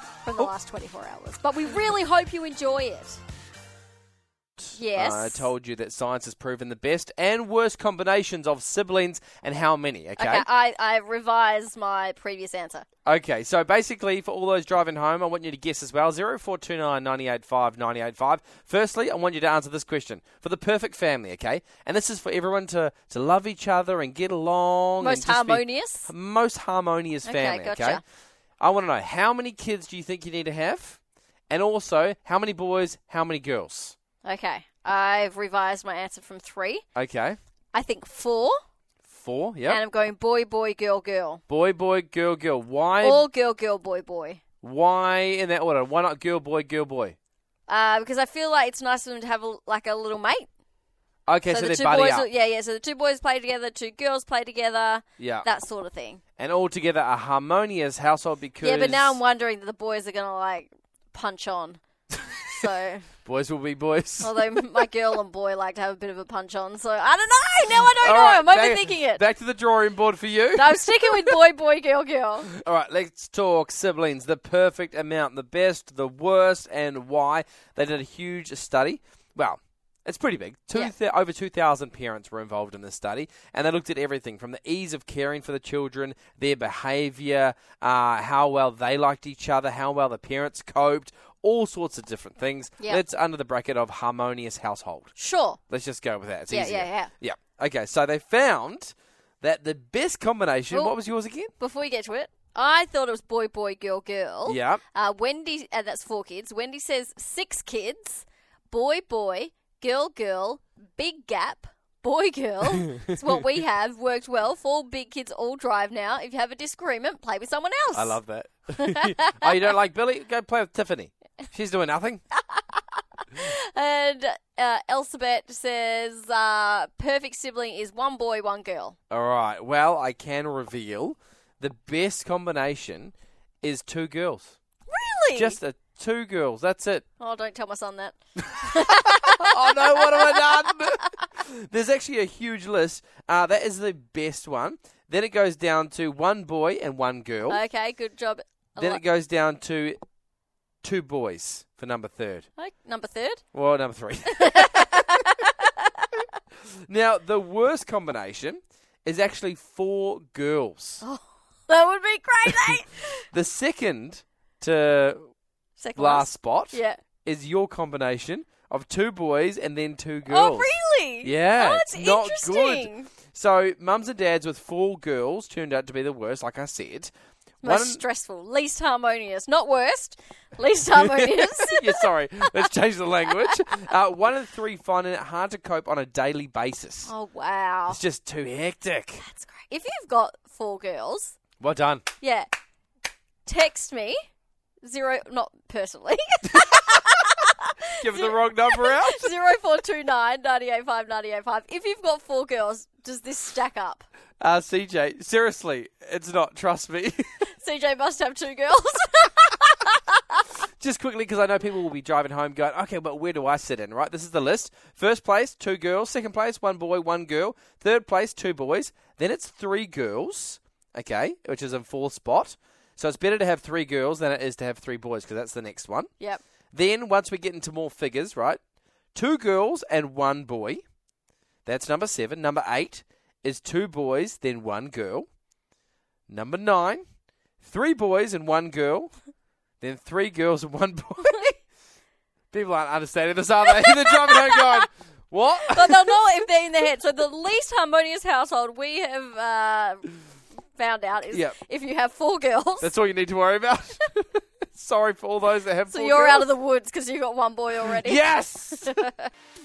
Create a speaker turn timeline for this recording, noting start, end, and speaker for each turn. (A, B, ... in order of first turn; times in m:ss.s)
0:00.2-0:03.2 A
0:04.6-0:10.4 B
0:04.7-0:05.5 A
0:10.2-0:12.8 A
0:13.0-0:28.0 B
0:25.0-0:26.1 A
0:27.2-0:28.0 A
0:28.6-0:31.0 B
0:31.5-0:34.0 B
0:34.2-0:36.8 A
0:37.0-0:37.4 B
0:37.7-0:38.5 A
0:39.1-0:39.8 B
0:39.7-0:41.4 A
0:41.5-0:43.2 B
0:43.0-0:44.4 A
0:44.6-0:47.2 B
0:47.7-0:50.5 A
0:51.3-0:52.3 B
0:51.5-0:56.2 A
0:55.2-0:55.5 B
0:56.4-0:59.2 B
0:58.6-1:01.8 A
1:02.5-1:03.1 A
1:03.2-1:04.8 B
1:04.2-1:09.2 A
1:07.8-1:11.4 B
1:10.5-1:12.5 A
1:12.5-1:35.1 B
1:35.2-1:35.6 A
1:35.7-1:41.5 B
1:36.5-1:37.1 A
1:41.6-1:58.2 A
1:44.4-1:44.8 B
1:57.9-2:02.2 B
1:58.8-1:59.5 A
2:02.5-2:09.0 A
2:09.1-2:14.6 B
2:14.9-2:15.6 A
2:15.4-2:17.0 B
2:17.2-2:20.8 A
2:18.8-2:27.6 B
2:27.5-2:29.0 A
2:28.8-2:30.0 B
2:30.8-2:32.5 B
2:32.6-2:33.4 A
2:33.5-2:35.2 B
2:34.3-2:36.2 A
2:36.8-2:41.0 B
2:41.0-2:43.2 A
2:42.5-2:42.8 B
2:43.3-2:45.3 B
2:45.8-2:47.0 A
2:46.0-2:50.7 B
2:50.3-2:53.1 A
2:51.2-2:58.0 B
2:57.6-3:02.6 A
3:00.9-3:07.1 B
3:03.3-3:03.6 A
3:07.0-3:08.0 A
3:07.9-3:09.2 B
3:09.2-3:11.4 A
3:11.6-3:12.0 B
3:12.2-3:12.5 A
3:13.4-3:14.2 A
3:14.8-3:24.1 A
3:18.0-3:19.3 B
3:24.4-3:27.4 B
3:27.5-3:30.4 A
3:30.8-3:46.1 B
3:46.7-3:48.6 B
3:49.1-3:50.8 B
3:51.6-3:55.2 B
3:56.3-3:57.0 B
3:57.6-3:59.1 B
3:59.8-4:01.6 B
4:02.5-4:06.0 B
4:03.8-4:04.9 A
4:05.6-4:10.1 A
4:10.8-4:12.9 A
4:11.3-4:11.6 B
4:12.8-4:16.5 B
4:15.9-4:18.2 A
4:17.8-4:19.0 B
4:18.8-4:19.3 A